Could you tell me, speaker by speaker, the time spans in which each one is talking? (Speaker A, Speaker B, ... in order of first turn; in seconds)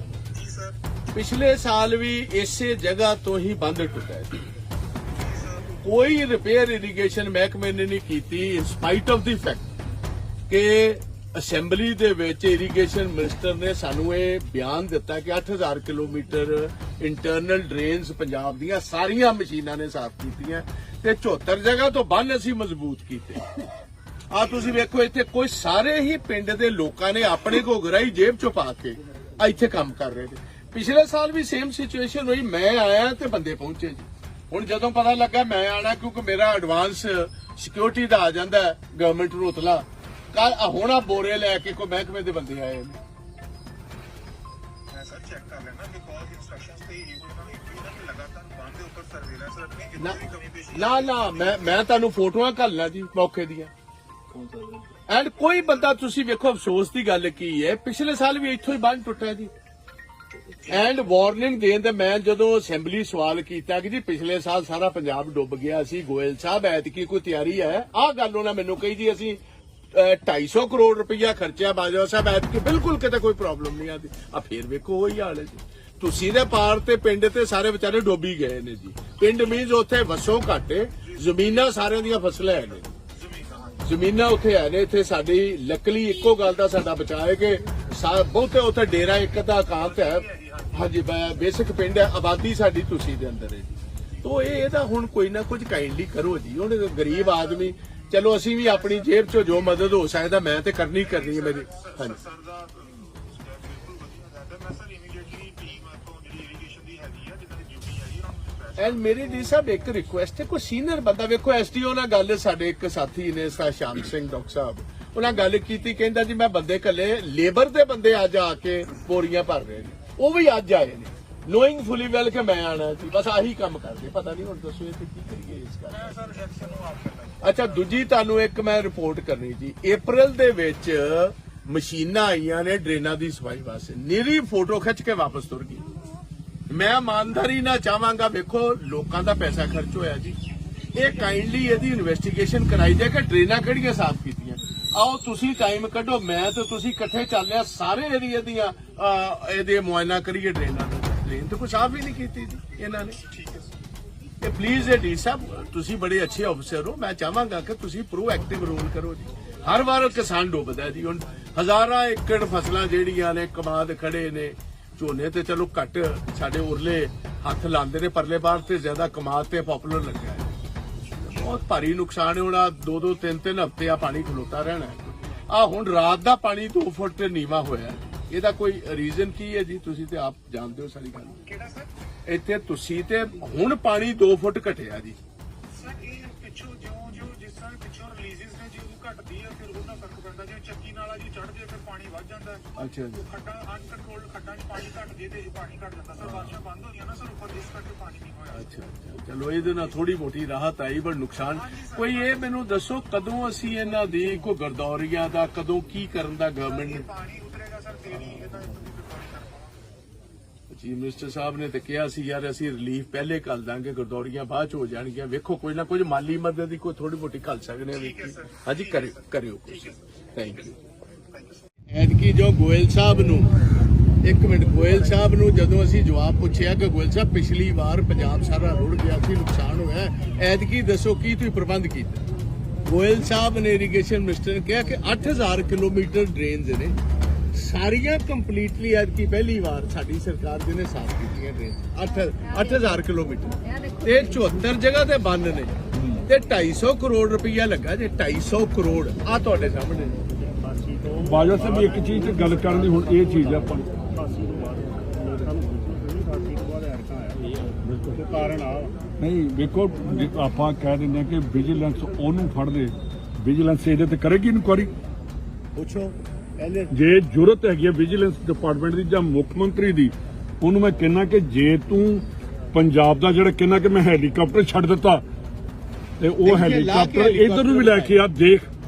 Speaker A: 0.3-0.7, 5.1-5.6, 44.9-51.6, 83.2-83.8, 90.0-90.7, 101.0-109.0, 125.9-127.8, 153.3-153.6, 181.4-181.9, 185.7-198.6, 201.6-202.3, 206.8-209.8, 217.9-219.2, 219.7-220.0, 221.3-221.6
Speaker B: 1.1-4.4, 5.8-9.7, 10.5-23.4, 24.3-43.0, 50.7-53.7, 55.1-59.5, 60.7-69.4, 69.9-82.9, 83.8-102.2, 108.8-126.2, 127.4-135.8, 136.7-140.4, 140.9-153.2, 154.4-170.5, 171.2-181.4, 182.3-185.2, 192.8-193.3, 196.2-196.6, 198.5-207.1, 208.1-208.4, 210.7-220.8, 221.9-223.6, 224.2-232.2, 232.8-236.9, 237.5-245.7, 246.2-250.2, 265.7-266.9, 276.4-278.2
Speaker C: 245.9-246.2, 251.2-253.9, 257.8-258.2, 259.2-264.9, 266.9-275.2, 276.2-278.7
Speaker D: 250.6-258.9